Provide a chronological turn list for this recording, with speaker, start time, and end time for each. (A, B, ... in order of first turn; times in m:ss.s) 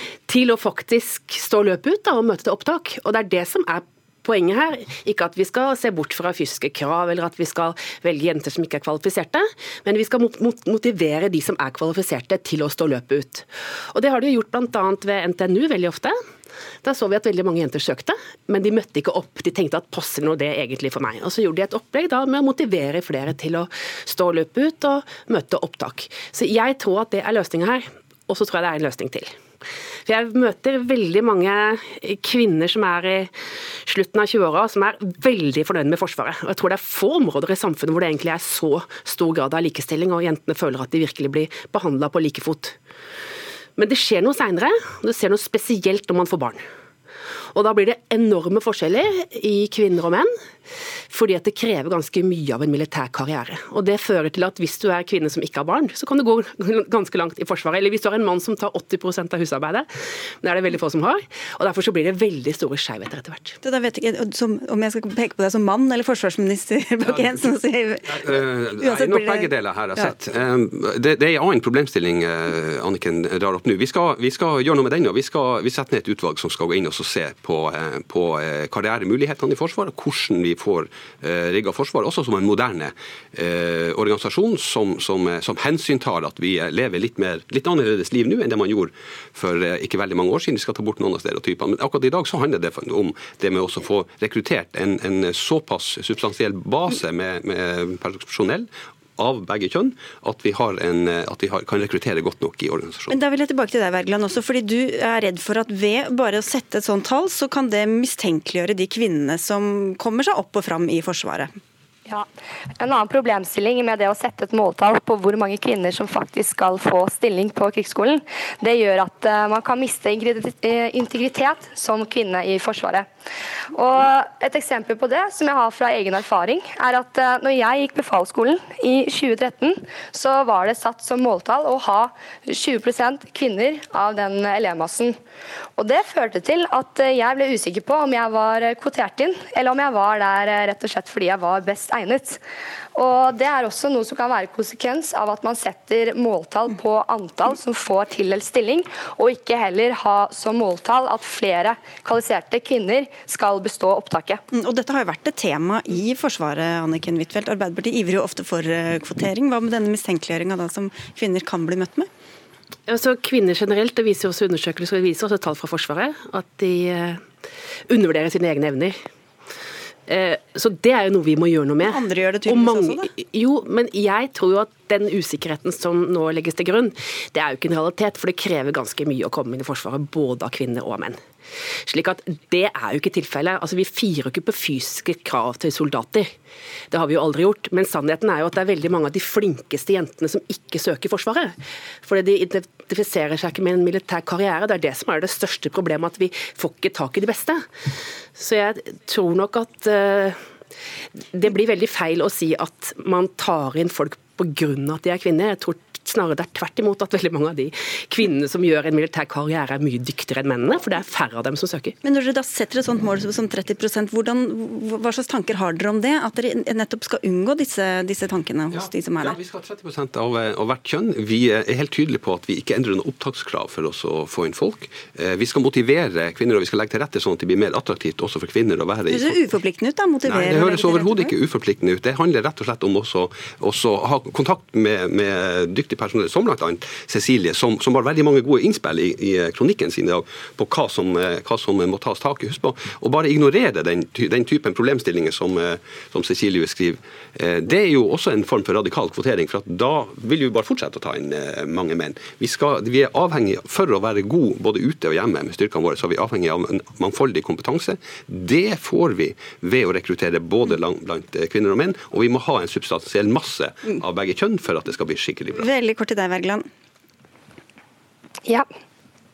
0:00.3-0:16.2 A
0:16.8-0:29.4 A
0:30.0-0:42.8 A
0:43.8-0:46.6 A
0:47.5-0:50.3 A
0:51.1-1:03.6 A
1:03.6-1:10.1 B
1:07.0-1:07.4 C
1:08.1-1:43.2 C
1:43.1-1:51.5 B
1:52.8-2:03.1 D
2:03.7-2:15.2 D
2:15.8-2:22.4 D
2:22.9-2:34.4 D
2:34.5-2:42.1 B
2:42.9-2:47.2 A
2:47.9-2:49.0 A
2:50.1-3:01.2 A
2:51.8-2:53.1 B
3:01.8-3:06.3 A
3:06.9-3:17.7 A
3:18.3-3:20.4 A
3:21.3-3:31.9 A
3:32.0-3:39.4 B
3:38.7-3:49.5 C
3:49.1-3:51.3 B
3:50.3-4:25.7 C
4:25.5-4:26.7 B